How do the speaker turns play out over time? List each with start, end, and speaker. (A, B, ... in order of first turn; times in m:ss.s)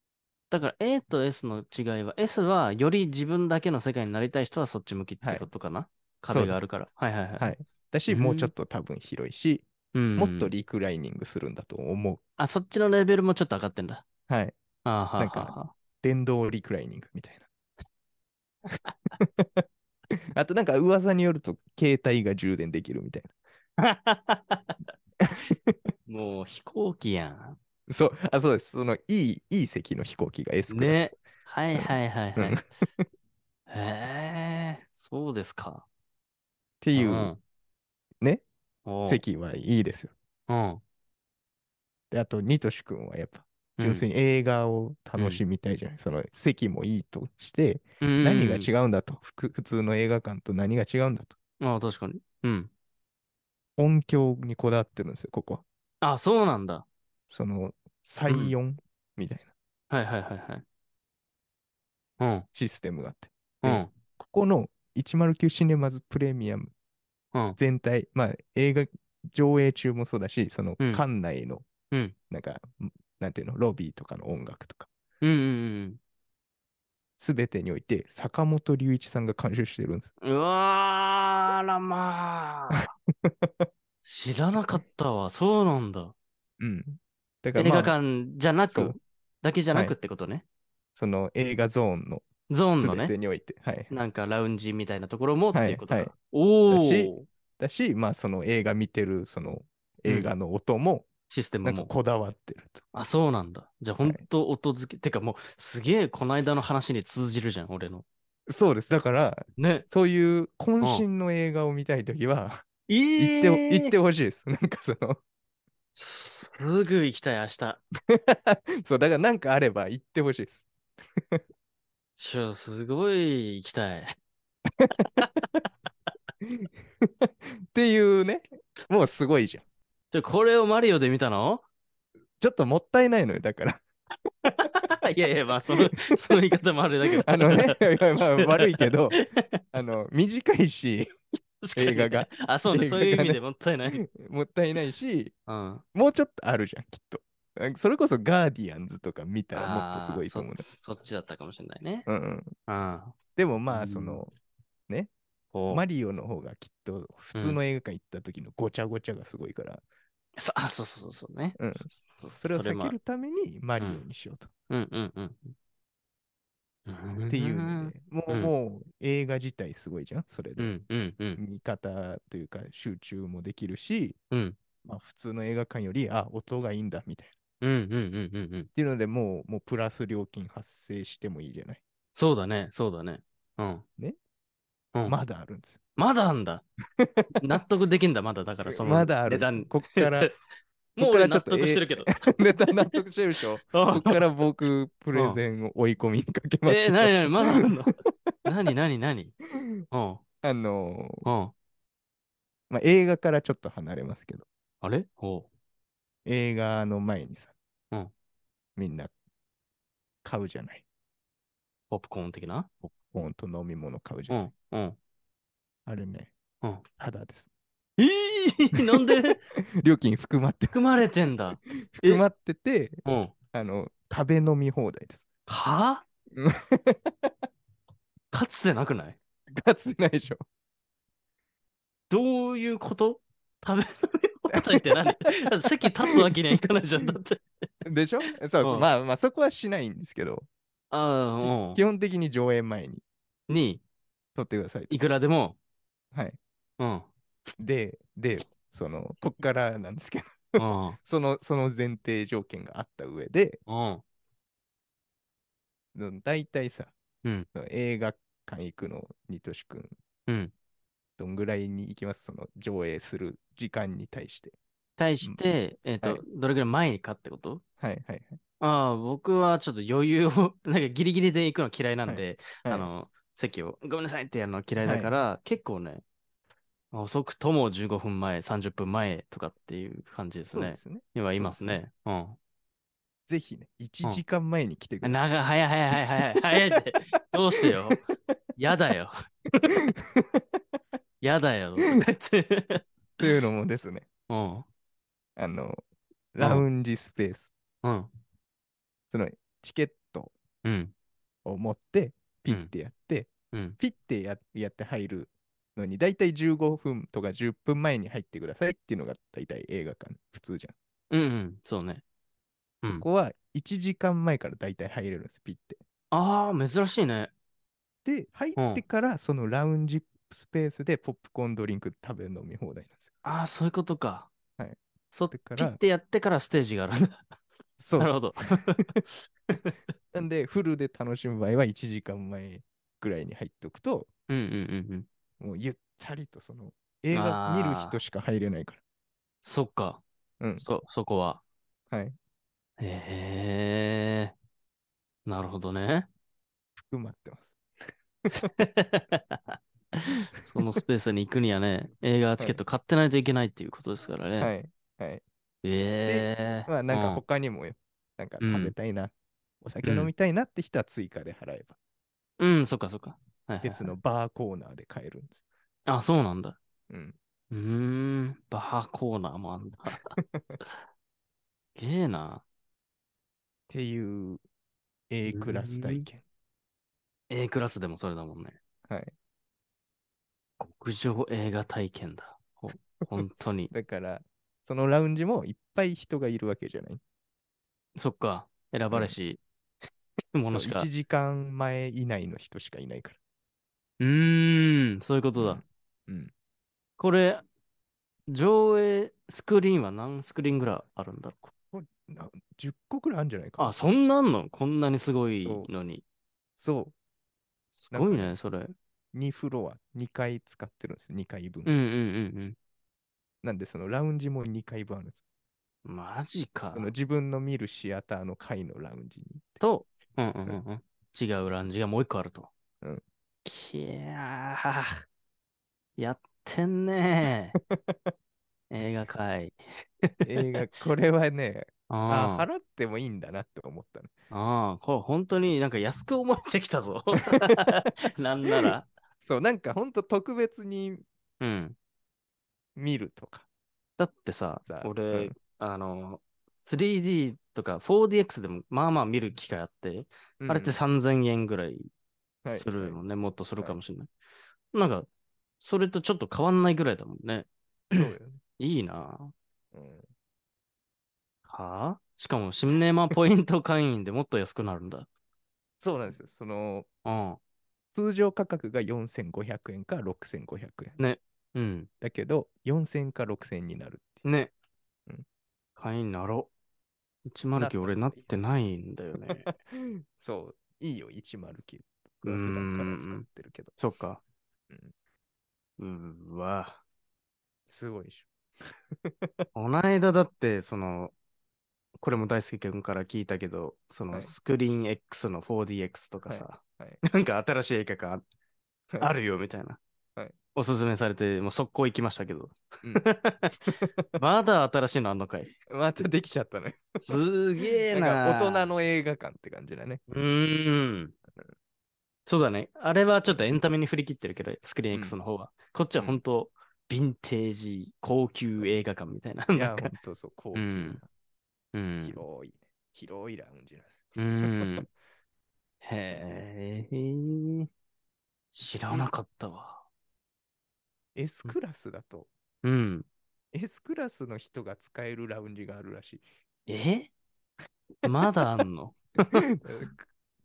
0:00.5-0:07.5 A
0:05.2-0:05.5 B
0:06.3-0:06.6 B
0:07.4-0:12.2 B
0:08.1-0:08.5 A
0:09.9-0:10.5 A
0:12.4-0:14.0 A
0:14.3-0:14.5 B
0:14.8-0:15.7 A
0:15.2-0:17.4 B
0:19.2-0:19.6 B
0:20.3-0:23.3 B
0:23.8-0:24.8 A
0:25.5-0:25.8 B
0:26.1-0:27.6 A
0:27.9-0:31.2 B
0:30.7-0:32.6 A
0:31.7-0:33.0 B
0:33.7-0:35.8 A
0:36.8-0:37.3 B
0:36.9-0:37.4 A
0:38.8-0:39.2 A
0:39.0-0:40.1 B
0:40.5-0:40.8 A
0:42.1-0:51.4 B
0:43.8-0:44.0 A
0:45.2-0:45.4 A
0:48.0-0:48.7 A
0:51.6-0:52.7 A
0:53.8-0:55.6 B
0:56.0-0:56.8 A
0:57.3-0:59.5 B
0:58.3-0:58.6 A
0:59.9-1:00.6 A
1:02.2-1:02.4 A
1:02.5-1:06.7 B
1:03.6-1:03.9 A
1:07.6-1:11.6 B
1:12.3-1:14.9 B
1:15.2-1:16.0 A
1:17.2-1:20.1 B
1:20.2-1:22.8 A
1:22.7-1:23.7 B
1:24.0-1:26.1 A
1:26.6-1:28.0 B
1:27.6-1:30.4 A
1:28.7-1:29.0 B
1:31.0-1:34.0 B
1:32.5-1:33.1 A
1:33.9-1:37.3 A
1:35.5-1:36.1 B
1:36.7-1:41.1 B
1:40.0-1:40.3 A
1:41.3-1:41.9 A
1:41.6-1:42.8 B
1:42.9-1:48.0 A
1:48.5-1:52.6 B
1:49.6-1:49.8 A
1:52.9-1:53.9 A
1:53.2-1:55.2 B
1:55.9-1:57.8 A
1:58.1-2:00.7 B
2:02.2-2:04.1 A
2:04.8-2:05.2 B
2:06.4-2:09.6 B
2:10.1-2:11.6 A
2:12.4-2:13.8 B
2:14.4-2:19.4 A
2:16.1-2:16.4 B
2:17.2-2:19.2 B
2:19.7-2:21.1 B
2:21.6-2:24.0 A
2:21.7-2:23.4 B
2:23.9-2:25.3 B
2:25.5-2:25.8 A
2:25.9-2:30.7 B
2:29.5-2:32.1 A
2:32.0-2:32.5 B
2:32.7-2:33.1 A
2:33.4-2:34.3 B
2:33.7-2:34.2 A
2:35.5-2:35.8 A
2:35.7-2:39.8 B
2:37.3-2:37.6 A
2:40.4-2:43.0 A
2:41.6-2:41.9 B
2:42.4-2:44.5 B
2:44.7-2:45.5 A
2:46.9-2:48.5 A
2:47.3-2:50.7 B
2:50.6-2:51.4 A
2:51.4-2:54.2 B
2:54.3-2:54.6 A
2:54.8-2:57.3 B
2:57.6-2:58.7 A
2:58.7-3:01.8 B
3:02.2-3:03.8 A
3:05.0-3:05.8 B
3:06.0-3:06.6 A
3:07.0-3:07.4 B
3:07.4-3:10.3 A
3:08.6-3:10.3 B
3:11.0-3:13.0 A
3:11.0-3:17.7 B
3:13.7-3:14.2 A
3:15.1-3:15.4 A
3:16.6-3:19.3 A
3:19.9-3:20.2 A
3:20.4-3:21.2 B
3:21.2-3:21.5 A
3:22.7-3:24.5 B
3:24.8-3:25.5 A
3:26.2-3:27.5 B
3:28.8-3:29.1 B
3:30.2-3:30.8 B
3:31.9-3:32.7 A
3:32.9-3:34.5 B
3:34.3-3:35.0 A
3:35.8-3:36.3 B
3:37.0-3:37.5 B
3:38.0-3:39.4 A
3:39.0-3:41.0 B
3:40.7-3:42.2 A
3:41.7-3:45.2 B
3:43.0-3:43.3 A
3:45.5-3:46.0 A
3:46.4-3:47.3 B
3:48.3-3:49.2 A
3:49.5-3:50.4 B
3:52.1-3:57.4 A
3:54.5-3:55.5 B
3:57.8-4:00.5 B
3:58.6-3:58.9 A
4:00.9-4:01.8 A
4:01.4-4:03.0 B
4:03.5-4:03.8 A
4:04.3-4:05.0 B
4:04.9-4:05.6 A
4:06.8-4:07.1 A
4:07.6-4:13.6 B
4:10.6-4:11.0 A
4:13.6-4:14.0 A
4:15.9-4:16.9 B
4:17.5-4:19.9 B
4:20.3-4:20.5 A
4:21.2-4:24.5 B
4:25.0-4:27.6 A
4:27.8-4:28.4 B
4:28.6-4:36.0 A
4:32.0-4:32.9 B
4:34.8-4:35.2 B
4:36.9-4:42.4 A
4:40.5-4:41.8 B
4:43.3-4:45.2 B
4:45.0-4:48.0 A
4:47.6-4:48.0 B
4:48.6-4:49.7 A
4:51.2-4:52.8 A
4:53.2-4:54.1 B
4:54.3-4:54.6 A
4:55.4-4:55.8 B
4:56.3-4:57.5 B
4:56.4-4:56.6 A
4:57.8-4:58.1 A
4:59.1-5:00.3 B
5:00.6-5:00.9 A
5:01.4-5:10.7 B
5:03.5-5:03.8 A
5:11.1-5:12.0 A
5:12.8-5:15.8 B
5:16.1-5:17.3 A
5:18.0-5:23.1 B
5:18.6-5:18.8 A
5:23.2-5:24.3 A
5:25.1-5:27.2 A
5:25.3-5:25.8 B
5:27.8-5:28.8 B
5:28.0-5:29.6 A
5:30.1-5:34.1 B
5:34.3-5:35.1 A
5:35.4-5:38.8 B
5:37.1-5:38.0 A
5:39.4-5:40.0 A
5:40.4-5:40.7 B
5:40.6-5:41.4 A
5:41.9-5:42.2 B
5:42.8-5:44.3 A
5:45.2-5:46.1 A
5:46.8-5:47.6 B
5:48.4-5:54.5 A
5:50.4-5:50.7 B
5:54.4-5:55.2 B
5:55.6-5:57.2 A
5:56.0-6:01.8 B
5:58.4-5:58.7 A
5:59.8-6:00.1 A
6:02.4-6:03.9 A
6:03.6-6:05.4 B
6:05.9-6:06.6 A
6:06.9-6:07.1 B
6:07.5-6:10.1 A
6:10.2-6:10.6 B
6:11.8-6:12.4 A
6:13.7-6:14.4 B
6:15.1-6:16.2 B
6:15.3-6:16.0 A
6:17.3-6:18.6 A
6:18.9-6:19.1 B
6:20.6-6:23.7 A
6:23.7-6:27.0 B
6:28.0-6:29.4 A
6:28.9-6:29.2 B
6:30.3-6:30.9 A
6:30.5-6:33.2 B
6:34.0-6:35.6 A
6:35.4-6:36.3 B
6:37.0-6:37.4 A
6:38.3-6:41.5 A
6:41.7-6:43.7 B
6:43.6-6:46.0 A
6:45.4-6:45.7 B
6:46.6-6:46.9 B
6:47.7-6:48.7 A
6:47.9-6:48.4 B
6:49.1-6:51.7 B
6:51.6-6:52.6 A
6:53.4-6:55.2 B
6:55.8-6:56.9 A
6:56.7-6:59.6 B
6:59.6-7:02.5 A
7:03.4-7:04.9 A
7:06.0-7:07.6 A
7:07.7-7:08.1 B
7:08.7-7:10.1 A
7:10.2-7:14.1 B
7:11.9-7:12.5 A
7:14.3-7:18.9 A
7:19.2-7:21.0 B
7:21.4-7:21.8 A
7:22.8-7:23.4 B
7:24.0-7:31.9 A
7:24.6-7:25.3 B
7:30.4-7:30.8 B
7:32.4-7:33.0 B
7:32.5-7:34.1 A
7:34.7-7:35.1 A
7:35.6-7:39.3 A
7:37.9-7:38.4 B
7:39.7-7:40.1 B
7:41.5-7:45.1 A
7:45.8-7:46.9 B
7:47.0-7:47.4 A
7:47.9-7:51.0 B
7:51.0-7:51.9 A
7:52.0-7:54.2 B
7:54.2-7:54.5 A
7:55.8-7:56.5 A
7:57.3-7:59.5 A
7:57.6-7:58.2 B
7:59.3-8:03.7 B
8:02.2-8:03.2 A
8:03.8-8:04.2 A
8:05.8-8:06.8 A
8:07.7-8:08.3 B
8:09.0-8:09.4 B
8:09.5-8:11.1 A
8:12.0-8:18.2 A
8:16.2-8:17.0 B
8:19.0-8:19.8 A
8:20.5-8:25.5 A
8:23.8-8:24.2 B
8:25.7-8:27.2 B
8:27.0-8:28.7 A
8:27.9-8:30.0 B
8:30.1-8:31.1 A
8:32.2-8:39.9 A
8:33.3-8:33.5 B
8:39.5-8:41.0 B
8:40.5-8:41.0 A
8:41.7-8:42.2 A
8:42.0-8:44.8 B
8:44.2-8:44.8 A
8:45.8-8:47.7 A
8:48.5-8:49.8 A
8:51.1-8:52.3 B
8:52.6-8:53.1 A
8:53.5-8:56.2 B
8:56.7-8:57.1 A
8:58.0-8:59.4 A
8:59.4-9:00.0 B